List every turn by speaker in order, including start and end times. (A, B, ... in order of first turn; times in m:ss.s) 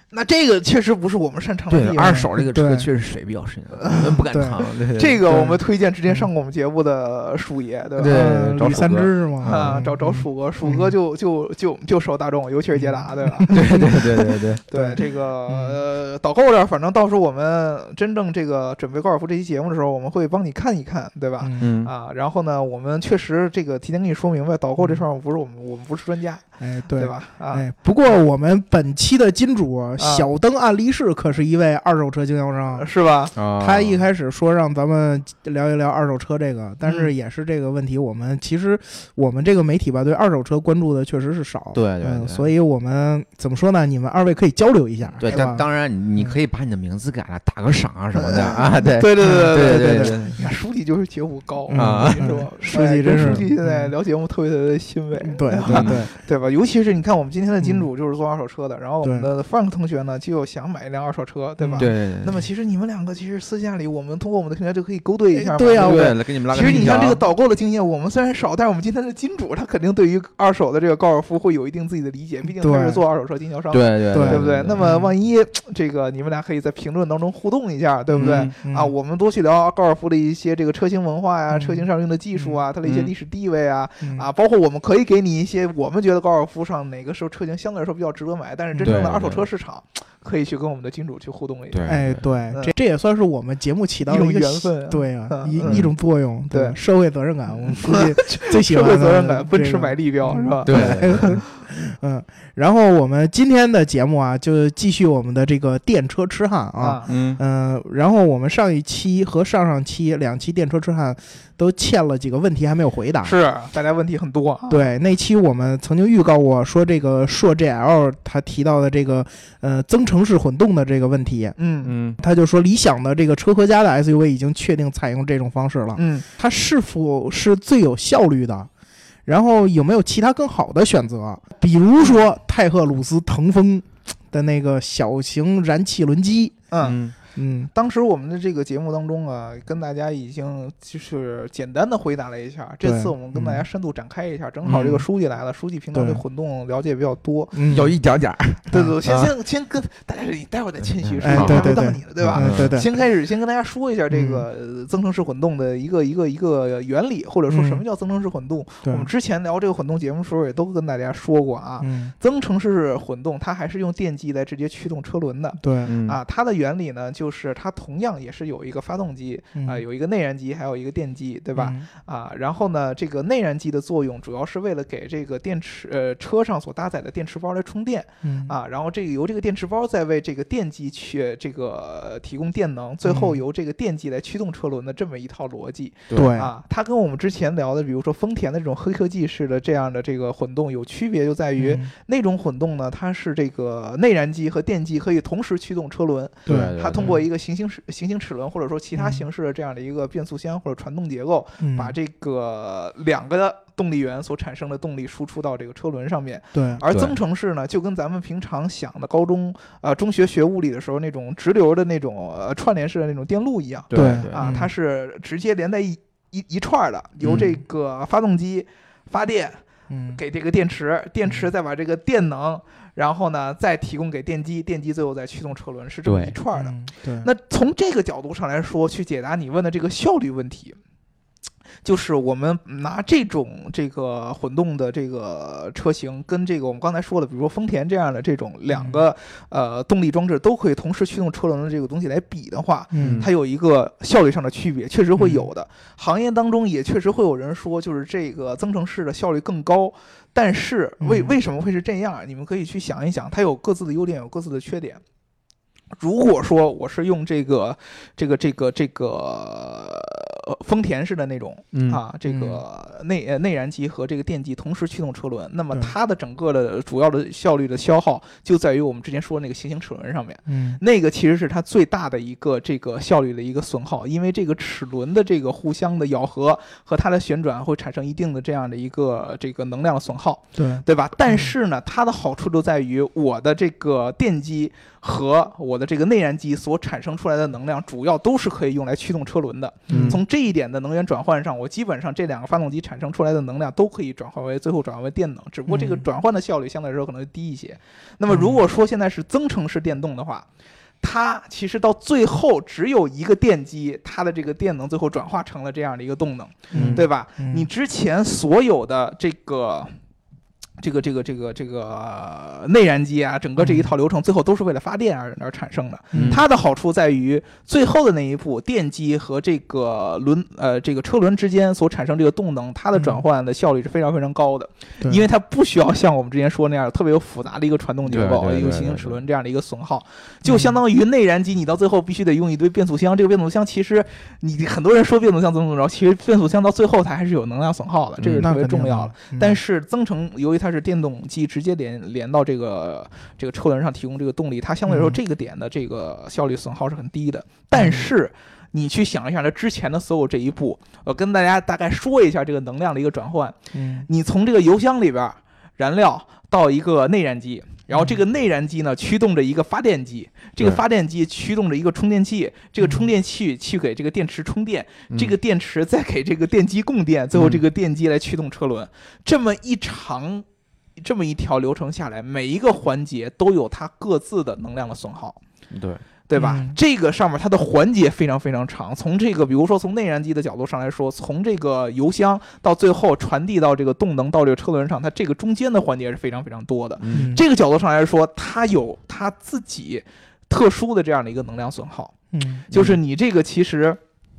0:00.1-0:02.3 A
0:01.7-0:05.6 B
0:02.0-0:02.9 C
0:03.7-0:04.3 A
0:04.2-0:04.6 C
0:05.0-0:08.2 A
0:08.0-0:09.8 B
0:08.1-0:10.9 C
0:09.4-0:14.0 A
0:12.8-0:14.0 C
0:13.5-0:14.6 B
0:14.7-0:26.4 A
0:14.7-0:15.8 C
0:21.4-0:21.7 C
0:21.6-0:21.9 B
0:26.6-0:32.9 C
0:27.0-0:27.7 A
0:30.0-0:30.3 A
0:32.7-0:33.3 A
0:33.4-0:34.0 B
0:33.6-0:45.6 C
0:36.8-0:37.1 A
0:41.7-0:42.5 B
0:45.2-0:50.4 B
0:45.3-0:45.6 A
0:48.2-1:32.7 A
0:49.2-0:50.2 C
0:51.7-0:53.9 C
0:51.7-0:52.5 B
0:53.2-0:53.4 B
0:55.2-0:56.1 C
0:55.7-0:56.0 B
0:57.6-0:57.9 C
1:01.6-1:01.9 C
1:01.8-1:02.4 B
1:05.3-1:07.1 C
1:05.8-1:07.2 B
1:12.6-1:13.0 C
1:13.7-1:14.9 B
1:14.1-1:15.1 C
1:18.1-1:18.9 C
1:18.2-1:18.5 B
1:21.5-1:21.9 C
1:22.8-1:23.1 B
1:24.0-1:24.3 C
1:28.8-1:29.5 B
1:31.7-1:32.3 B
1:31.9-1:53.3 C
1:34.1-1:35.8 A
1:35.6-1:35.9 B
1:36.5-1:36.8 A
1:37.7-1:41.4 A
1:40.7-1:41.4 B
1:46.8-1:47.1 A
1:47.1-1:47.4 B
1:53.2-1:54.9 A
1:54.7-2:01.6 C
2:01.6-2:01.9 A
2:01.8-2:02.2 B
2:02.2-2:08.7 C
2:06.0-2:06.3 A
2:09.3-2:16.6 C
2:16.7-2:17.0 A
2:16.8-2:17.2 B
2:17.4-2:17.7 C
2:17.7-2:27.6 A
2:22.8-2:23.6 C
2:24.7-2:25.0 B
2:24.7-2:25.0 C
2:25.9-2:26.2 C
2:27.5-2:28.0 C
2:27.7-2:29.3 B
2:28.7-3:39.6 A
2:30.9-2:32.8 B
2:31.2-2:32.9 C
2:34.1-2:34.5 C
2:37.5-2:37.8 C
2:38.8-2:39.1 C
2:41.8-2:42.1 C
2:45.6-2:45.9 C
2:45.9-2:46.2 B
2:49.6-2:49.8 C
2:51.6-2:51.9 C
2:58.2-2:58.5 C
3:03.0-3:03.4 C
3:06.1-3:06.4 B
3:06.1-3:06.5 C
3:11.6-3:11.9 C
3:16.5-3:17.2 C
3:16.5-3:17.2 B
3:19.0-3:19.2 C
3:21.6-3:22.0 C
3:26.5-3:26.8 C
3:26.9-3:27.2 B
3:33.9-3:34.6 B
3:33.9-3:34.7 C
3:37.2-3:37.5 B
3:39.9-3:40.2 C
3:40.1-3:50.8 A
3:46.0-3:46.4 B
3:46.6-3:47.3 C
3:51.8-4:15.0 A
3:58.7-3:59.0 C
4:02.9-4:03.2 C
4:03.0-4:03.3 B
4:05.2-4:05.5 C
4:11.0-4:11.4 C
4:16.0-5:00.5 A
4:21.7-4:22.0 B
4:22.3-4:22.6 C
4:30.5-4:30.8 C
4:40.6-4:41.5 C
4:49.9-4:50.2 C
4:49.9-4:50.2 B
4:55.7-4:56.0 C
4:58.3-4:58.6 C
5:01.0-5:09.9 A
5:06.7-5:07.7 C
5:06.7-5:07.0 B
5:10.8-6:10.4 A
5:13.6-5:13.9 C
5:16.1-5:16.4 C
5:16.1-5:16.4 B
5:23.0-5:23.2 C
5:28.1-5:29.2 B
5:30.4-5:30.8 C
5:38.2-5:38.5 B
5:38.4-5:39.6 C
5:44.9-5:45.2 C
5:47.7-5:48.1 C
5:53.7-5:54.1 C
5:57.9-5:58.2 C
6:02.8-6:03.1 C
6:07.3-6:07.6 B
6:11.0-6:15.4 A
6:15.7-6:16.0 B
6:16.3-6:32.1 A
6:16.4-6:16.8 C
6:27.0-6:27.3 B
6:27.1-6:27.4 C
6:32.3-6:32.6 C
6:32.7-6:34.0 A
6:32.7-6:33.0 B